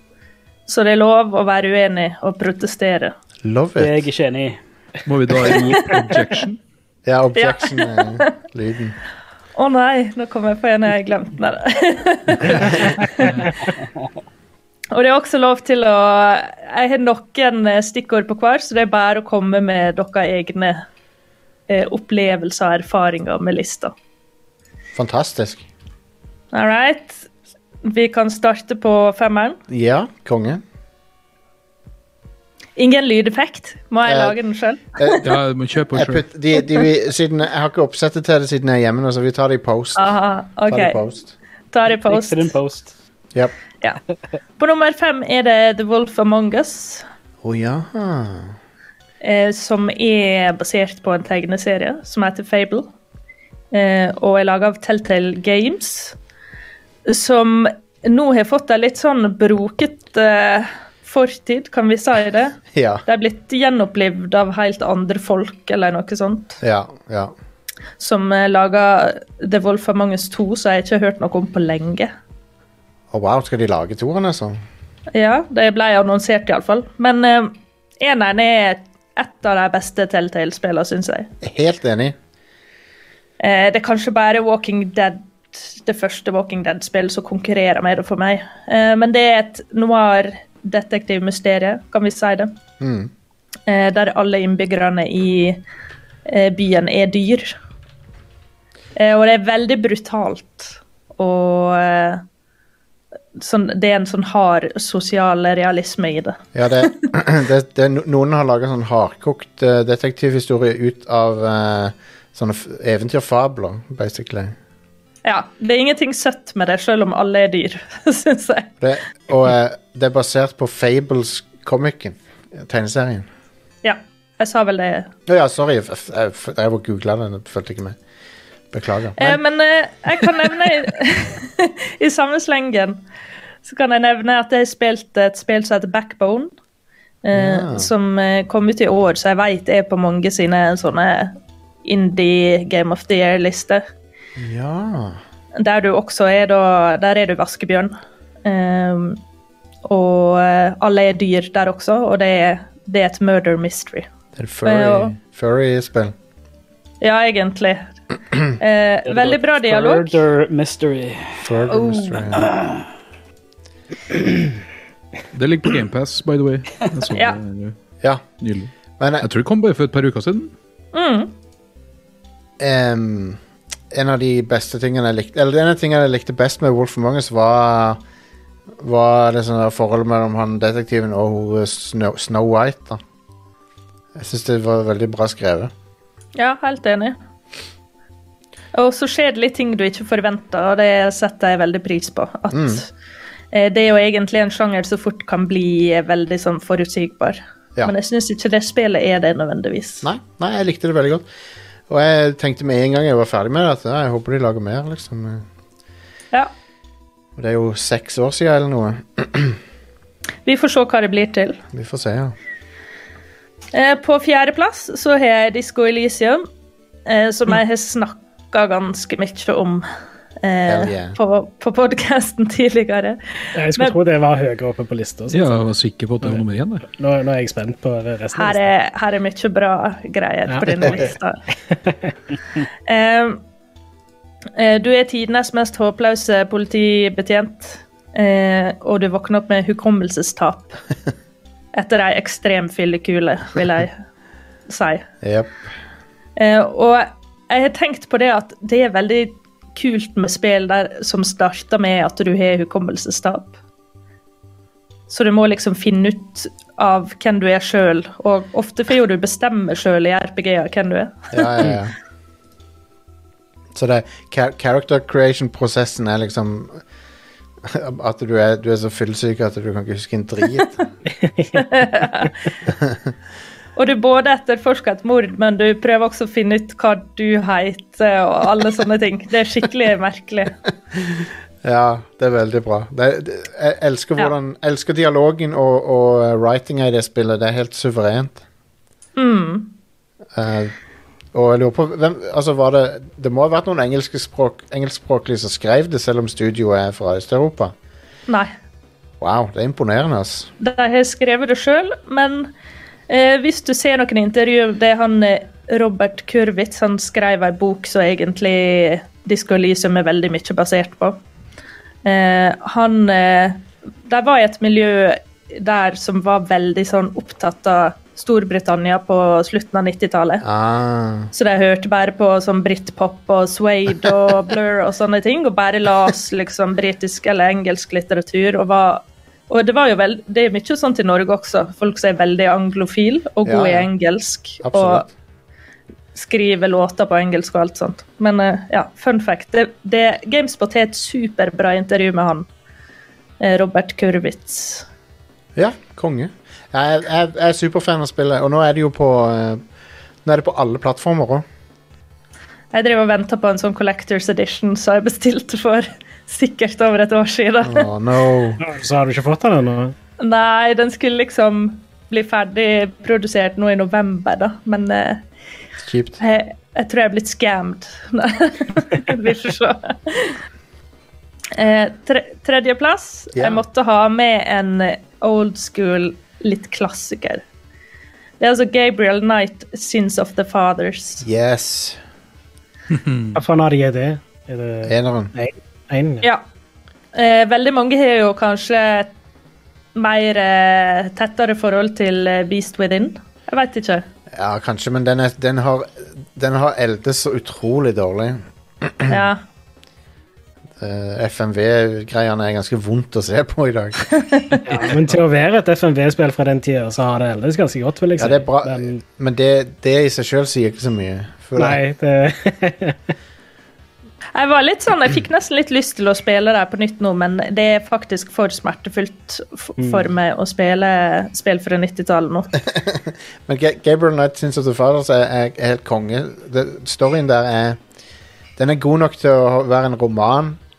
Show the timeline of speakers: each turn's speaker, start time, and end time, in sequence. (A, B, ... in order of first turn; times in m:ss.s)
0:00.7-0:03.1 A
0:03.4-0:04.0 B
0:03.8-0:04.6 C
0:05.1-0:06.6 D
0:07.0-0:09.0 B
0:07.4-0:08.3 A
0:09.6-0:13.3 A
0:14.9-0:20.8 A
0:21.7-0:23.9 A
0:24.9-0:25.6 B
0:26.5-0:27.3 A
0:27.8-0:29.6 A
0:29.7-0:30.6 B
0:32.8-0:35.2 A
0:34.0-0:34.4 B
0:35.0-0:35.2 B
0:35.2-0:36.2 D
0:35.9-0:40.1 B
0:39.9-0:41.0 A
0:40.7-0:41.3 B
0:41.7-0:42.6 A
0:41.9-0:42.9 C
0:44.6-0:47.1 A
0:47.4-0:48.6 B
0:49.2-0:52.9 A
0:53.7-0:56.2 A
0:57.1-1:06.6 A
1:02.7-1:03.0 B
1:06.6-1:07.3 B
1:08.0-1:12.1 A
1:13.1-1:14.6 B
1:15.1-1:21.3 A
1:21.4-1:22.2 B
1:23.4-1:32.6 A
1:32.8-1:33.1 B
1:33.7-1:35.6 A
1:36.2-1:37.6 A
1:39.0-1:42.2 A
1:43.4-1:47.1 A
1:46.6-1:54.6 B
1:55.2-1:58.7 A
1:58.8-2:03.3 B
2:03.8-2:05.1 A
2:05.3-2:08.0 B
2:08.7-2:09.4 B
2:09.2-2:13.0 A
2:10.2-2:10.5 B
2:13.6-2:16.5 A
2:17.2-2:23.8 A
2:17.3-2:17.9 B
2:24.4-2:25.2 B
2:25.6-2:27.9 A
2:28.4-2:29.2 A
2:29.8-2:34.1 A
2:34.3-2:36.1 B
2:34.6-2:35.1 A
2:37.0-2:37.9 A
2:38.6-2:40.2 A
2:39.0-2:41.4 C
2:41.4-2:42.5 B
2:41.7-2:42.2 A
2:42.3-2:42.8 C
2:45.3-2:47.8 D
2:47.1-2:47.4 A
2:48.4-2:50.5 D
2:49.0-2:49.3 B
2:50.9-2:51.3 A
2:52.6-2:53.4 B
2:53.9-2:58.0 B
2:58.8-3:03.0 B
3:04.2-3:05.7 B
3:06.4-3:07.2 A
3:08.7-3:12.9 A
3:12.5-3:12.8 B
3:13.5-3:20.1 A
3:20.0-3:21.2 B
3:21.9-3:25.4 B
3:27.4-3:29.6 B
3:30.4-3:31.6 A
3:31.7-3:32.3 B
3:33.7-3:36.4 A
3:37.1-3:39.9 A
3:40.4-3:44.0 A
3:40.7-3:41.2 B
3:43.6-3:45.7 E
3:45.3-3:46.8 D
3:46.2-3:48.7 E
3:48.3-3:51.4 A
3:50.5-3:51.1 E
3:52.9-3:53.4 A
3:54.6-4:00.8 A
4:01.7-4:04.0 A
4:04.7-4:05.1 A
4:05.2-4:05.6 B
4:06.4-4:13.6 A
4:15.1-4:21.8 A
4:21.3-4:21.9 B
4:23.7-4:26.8 B
4:27.6-4:30.8 B
4:31.2-4:31.6 E
4:31.6-4:32.5 A
4:32.7-4:33.0 B
4:33.8-4:40.6 A
4:41.1-4:48.4 B
4:49.2-4:49.7 A
4:50.3-4:50.7 B
4:51.3-4:57.7 B
4:58.3-4:58.5 A
4:59.2-5:00.5 B
5:00.6-5:02.5 A
5:03.1-5:11.2 A
5:12.0-5:20.4 A
5:20.4-5:21.3 B
5:21.3-5:35.1 A
5:33.4-5:33.9 B
5:34.6-5:35.1 B
5:36.2-5:42.5 A
5:43.4-5:44.9 A
5:45.6-5:49.6 B
5:50.2-5:51.4 B
5:52.7-5:57.9 A
5:57.6-5:58.6 B
5:58.6-5:59.9 E
6:00.2-6:05.2 A
6:05.8-6:06.2 B
6:06.2-6:10.4 A
6:11.5-6:17.4 A
6:13.3-6:13.6 B
6:18.4-6:21.2 A
6:21.2-6:22.0 B
6:22.9-6:23.4 D
6:23.3-6:26.2 E
6:24.8-6:25.3 B
6:27.1-6:29.1 A
6:30.0-6:34.1 A
6:34.3-6:39.2 B
6:39.1-6:39.4 A
6:40.8-6:44.5 B
6:44.1-6:44.6 A
6:44.7-6:49.0 E
6:48.2-6:51.8 B
6:51.6-6:53.0 E
6:54.3-7:02.5 A
6:59.8-7:00.1 E
7:02.6-7:07.8 B
7:08.6-7:10.6 B